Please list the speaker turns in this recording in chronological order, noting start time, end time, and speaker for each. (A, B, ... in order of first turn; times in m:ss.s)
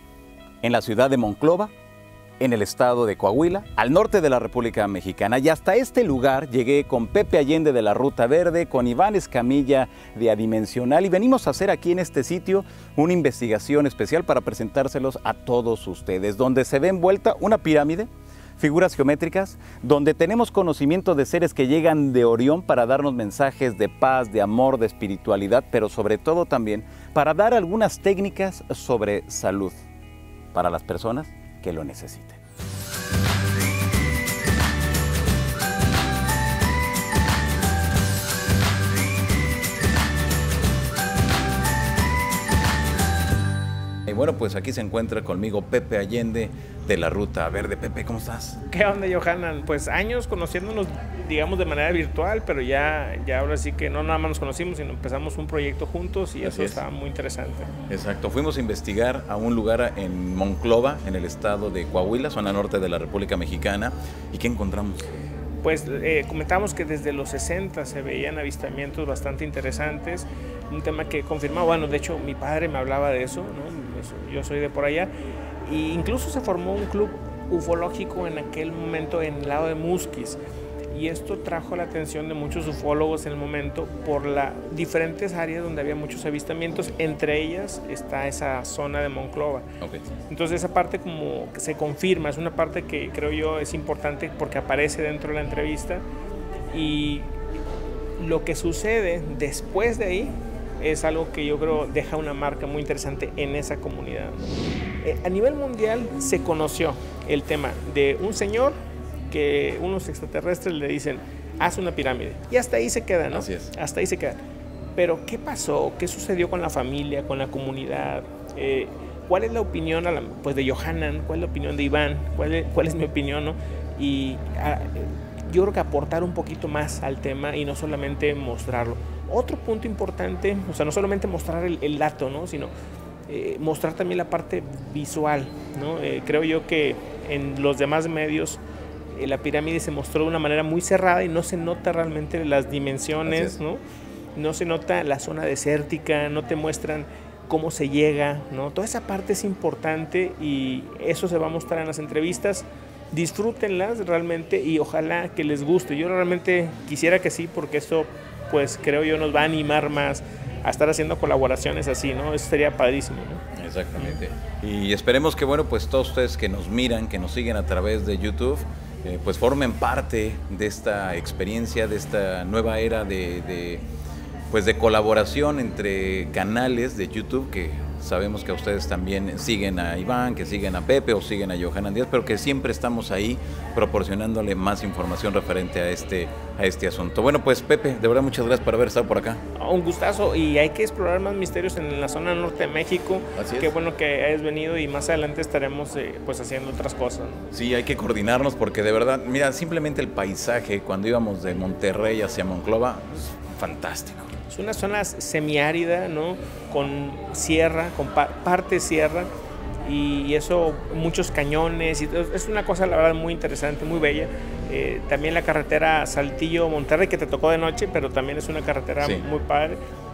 0:00.6-0:01.7 A
0:02.4-0:29.8 A
0:30.5-0:32.4 A
0:44.1-0:48.6 A
0:48.7-0:57.7 B
0:56.4-0:56.8 A
0:57.9-1:05.1 A
1:05.6-1:15.1 B
1:15.6-1:20.4 B
1:20.9-1:29.6 B
1:30.3-1:36.0 B
1:36.7-1:37.3 B
1:38.2-1:44.5 B
1:45.0-1:48.8 B
1:49.3-1:54.4 B
1:53.3-1:53.7 A
1:55.0-2:12.7 B
2:13.3-2:18.6 B
2:19.1-2:23.8 B
2:23.2-2:23.6 A
2:24.4-2:43.4 B
2:43.6-2:53.8 A
2:54.5-3:09.4 A
3:09.6-3:17.5 B
3:13.3-3:13.7 A
3:17.5-3:24.3 A
3:24.5-3:29.3 B
3:29.8-3:39.8 B
3:39.0-3:39.2 A